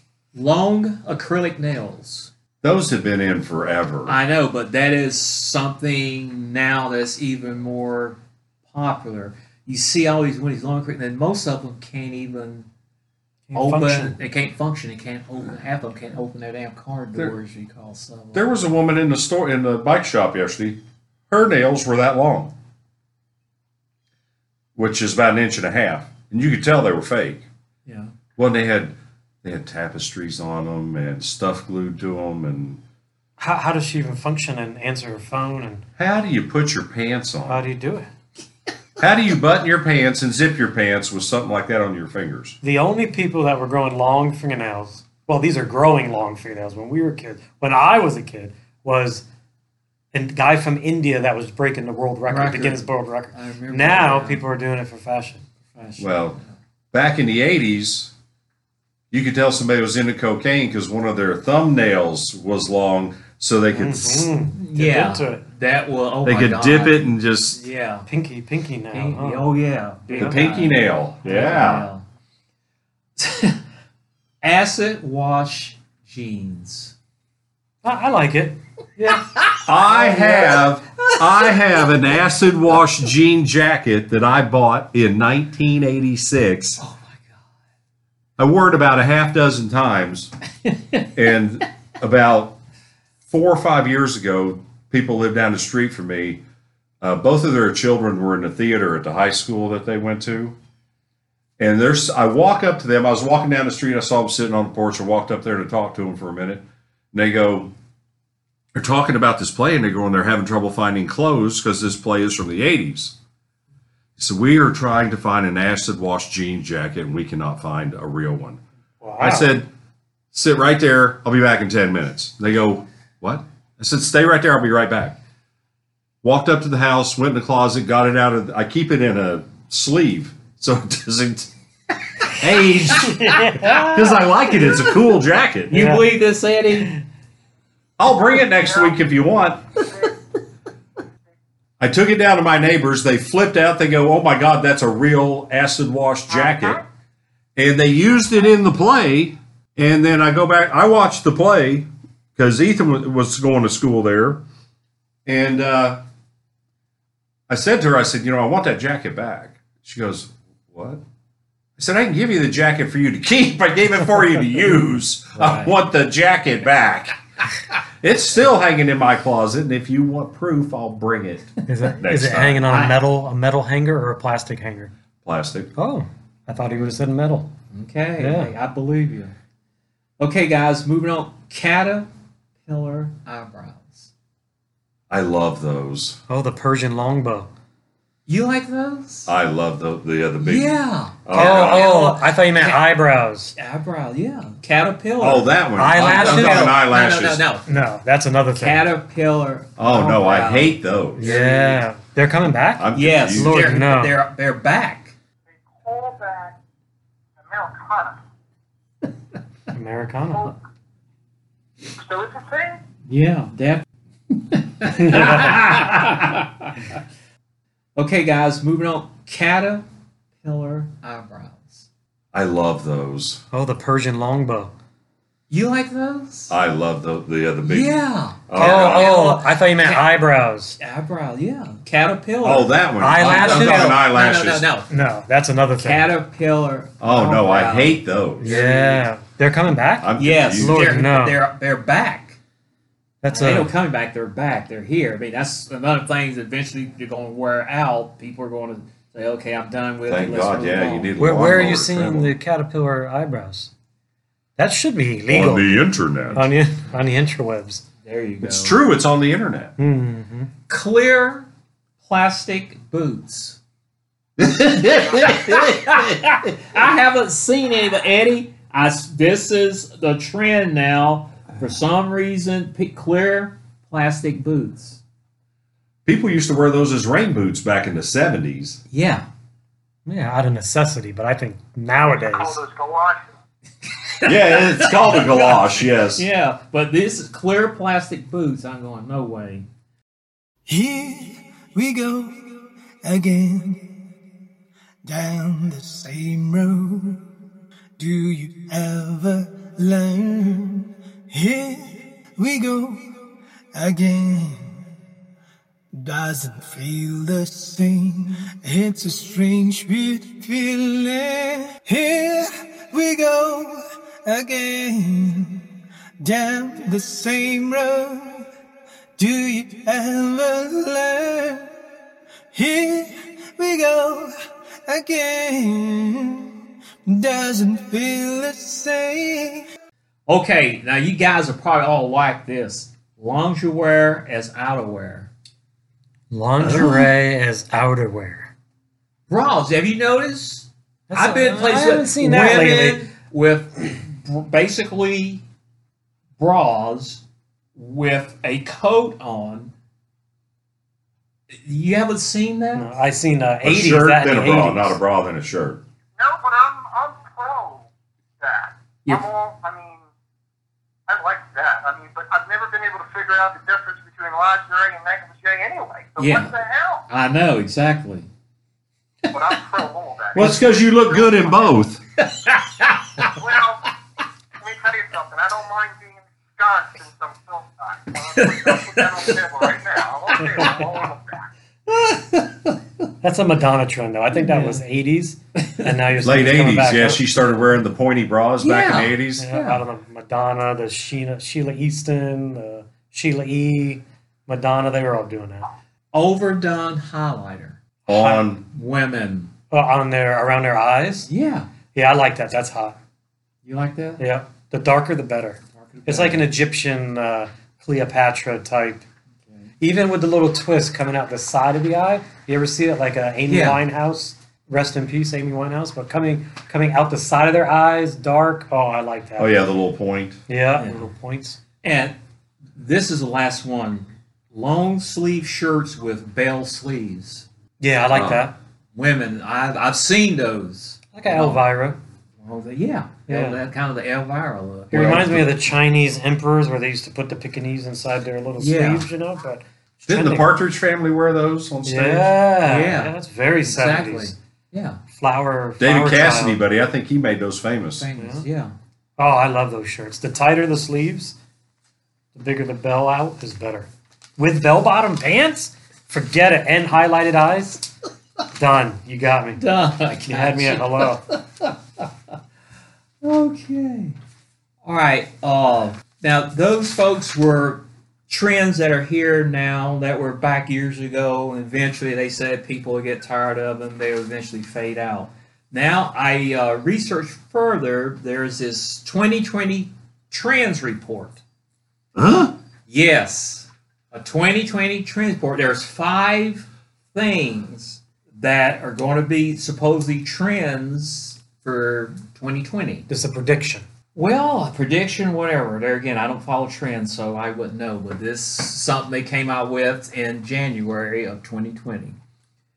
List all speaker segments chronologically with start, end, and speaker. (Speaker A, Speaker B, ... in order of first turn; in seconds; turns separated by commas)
Speaker A: 0.3-2.3, Speaker B: 2.6-4.2, Speaker A: 4.1-12.7, Speaker C: 13.5-14.2, Speaker A: 13.5-18.5, Speaker B: 18.3-22.5, Speaker B: 24.7-27.4, Speaker A: 27.9-28.1, Speaker B: 28.4-32.8, Speaker C: 33.4-35.8, Speaker B: 36.0-37.6, Speaker C: 37.5-38.1, Speaker B: 39.0-42.5, Speaker C: 42.6-49.2, Speaker C: 50.1-55.4, Speaker A: 52.3-54.4, Speaker A: 55.7-56.5, Speaker B: 56.0-56.4, Speaker B: 56.9-58.1, Speaker B: 59.1-64.3, Speaker C: 63.7-65.4, Speaker A: 64.5-68.1, Speaker B: 66.2-67.6, Speaker C: 68.1-69.4, Speaker A: 68.9-72.0, Speaker B: 70.1-71.9, Speaker A: 73.2-73.6, Speaker A: 74.4-76.9, Speaker C: 77.8-79.3, Speaker A: 79.4-81.6, Speaker B: 79.6-86.8, Speaker A: 86.8-87.4, Speaker B: 88.4-90.3, Speaker A: 90.6-91.1, Speaker B: 91.1-92.6, Speaker B: 93.3-96.4, Speaker B: 97.0-100.6, Speaker B: 101.6-107.7, Speaker B: 108.7-113.1, Speaker B: 114.2-118.6, Speaker C: 119.0-119.5, Speaker B: 119.2-119.7, Speaker B: 120.3-125.2, Speaker B: 126.2-131.5, Speaker B: 132.3-135.8, Speaker A: 133.0-133.8, Speaker C: 133.1-133.9, Speaker A: 134.6-134.9, Speaker A: 135.7-136.9, Speaker C: 135.7-136.0, Speaker B: 138.0-139.6, Speaker D: 138.6-139.0, Speaker D: 139.9-140.1, Speaker B: 141.8-146.8, Speaker B: 147.6-154.4, Speaker B: 155.2-156.0, Speaker B: 157.5-161.0, Speaker B: 161.8-167.2, Speaker A: 165.3-165.7, Speaker B: 168.0-172.7, Speaker C: 171.7-174.9, Speaker A: 172.7-172.9, Speaker B: 175.2-175.7, Speaker C: 175.8-177.5, Speaker A: 177.7-179.3, Speaker C: 178.2-178.5, Speaker A: 180.2-182.1, Speaker A: 182.6-184.1, Speaker B: 185.1-186.2, Speaker C: 186.3-187.5, Speaker A: 188.3-189.3, Speaker B: 189.3-190.7, Speaker A: 190.4-192.8, Speaker B: 191.2-191.9, Speaker C: 191.3-193.5, Speaker A: 193.5-197.7, Speaker B: 195.2-197.4, Speaker C: 195.8-196.8, Speaker C: 197.7-198.8, Speaker A: 198.5-201.8, Speaker B: 199.8-201.4, Speaker C: 201.2-204.1, Speaker B: 202.8-203.7, Speaker A: 202.9-205.1, Speaker D: 205.7-206.6, Speaker D: 207.4-208.2, Speaker C: 209.7-210.5, Speaker D: 211.9-212.8, Speaker A: 213.1-217.0, Speaker C: 214.9-215.8, Speaker A: 218.0-219.8, Speaker A: 220.4-221.9, Speaker B: 222.3-223.4, Speaker C: 223.5-224.7, Speaker A: 225.5-226.5, Speaker B: 226.5-227.9, Speaker A: 227.6-230.1, Speaker B: 228.5-229.1, Speaker C: 228.5-230.8, Speaker A: 230.8-234.9, Speaker B: 232.4-234.7, Speaker C: 233.0-234.0, Speaker C: 234.9-236.1, Speaker A: 235.8-239.0, Speaker B: 237.0-238.6, Speaker C: 238.4-241.3, Speaker B: 240.0-240.9, Speaker A: 240.2-242.4, Speaker C: 243.2-243.7, Speaker A: 243.3-251.1, Speaker B: 250.1-252.3, Speaker C: 251.2-253.7, Speaker C: 254.6-255.8, Speaker B: 255.3-256.5, Speaker C: 256.3-257.8, Speaker A: 258.0-258.8, Speaker B: 258.4-259.7, Speaker C: 259.8-260.5, Speaker A: 260.7-261.5, Speaker A: 262.0-263.6, Speaker A: 264.4-275.0, Speaker B: 276.1-278.8, Speaker A: 278.9-279.2, Speaker C: 280.1-282.6, Speaker D: 282.3-283.3, Speaker A: 284.2-289.6, Speaker B: 284.2-286.2, Speaker E: 290.7-293.9, Speaker E: 295.0-297.2, Speaker E: 298.0-303.1, Speaker E: 303.7-304.8, Speaker E: 305.9-315.6, Speaker E: 316.2-318.5, Speaker E: 319.2-321.7, Speaker E: 322.5-324.3, Speaker E: 324.9-326.5, Speaker E: 327.1-329.6, Speaker A: 330.3-335.3, Speaker C: 336.3-338.5, Speaker A: 336.6-337.1, Speaker A: 339.3-345.4, Speaker C: 341.1-343.0, Speaker A: 346.4-347.2, Speaker A: 347.8-349.7, Speaker A: 351.5-352.9, Speaker C: 352.8-355.0, Speaker B: 353.6-355.8, Speaker D: 356.2-357.9, Speaker D: 358.4-360.1, Speaker D: 361.1-367.0, Speaker A: 366.2-366.5, Speaker A: 367.1-368.3, Speaker D: 369.3-371.8, Speaker B: 370.3-372.0, Speaker A: 372.2-373.4, Speaker D: 373.3-373.9, Speaker D: 374.6-381.5, Speaker A: 378.1-380.8, Speaker A: 381.9-382.8, Speaker C: 383.2-387.4, Speaker A: 384.4-384.8, Speaker A: 385.6-385.9, Speaker B: 386.2-389.5, Speaker A: 388.6-389.8, Speaker C: 389.4-395.7, Speaker A: 396.1-397.8, Speaker B: 398.1-398.6, Speaker C: 398.1-398.4, Speaker A: 398.7-399.5, Speaker C: 399.7-401.3, Speaker A: 401.3-401.7, Speaker C: 401.9-402.9, Speaker A: 403.6-404.2, Speaker C: 404.2-409.0, Speaker A: 405.8-406.5, Speaker C: 409.8-419.6, Speaker A: 413.5-413.8, Speaker B: 419.4-420.4, Speaker C: 420.5-421.6, Speaker A: 420.8-421.1, Speaker A: 421.8-422.1, Speaker A: 422.7-427.4, Speaker C: 427.8-428.5, Speaker B: 428.1-428.4, Speaker A: 428.9-431.6, Speaker C: 431.1-432.0, Speaker A: 432.4-435.4, Speaker C: 433.3-433.6, Speaker C: 434.9-440.5, Speaker B: 434.9-435.4, Speaker A: 438.6-439.1, Speaker B: 440.1-442.4, Speaker C: 441.9-444.3, Speaker A: 442.6-445.0, Speaker C: 445.2-446.6, Speaker B: 445.8-448.1, Speaker A: 448.0-448.7, Speaker C: 448.1-448.4, Speaker C: 449.2-451.4, Speaker C: 452.3-457.9, Speaker C: 458.5-459.6, Speaker A: 459.6-462.1, Speaker C: 460.2-461.2, Speaker A: 463.2-464.2, Speaker A: 464.8-481.4, Speaker B: 482.1-482.6, Speaker A: 482.9-493.1, Speaker C: 493.1-493.8, Speaker A: 494.1-502.2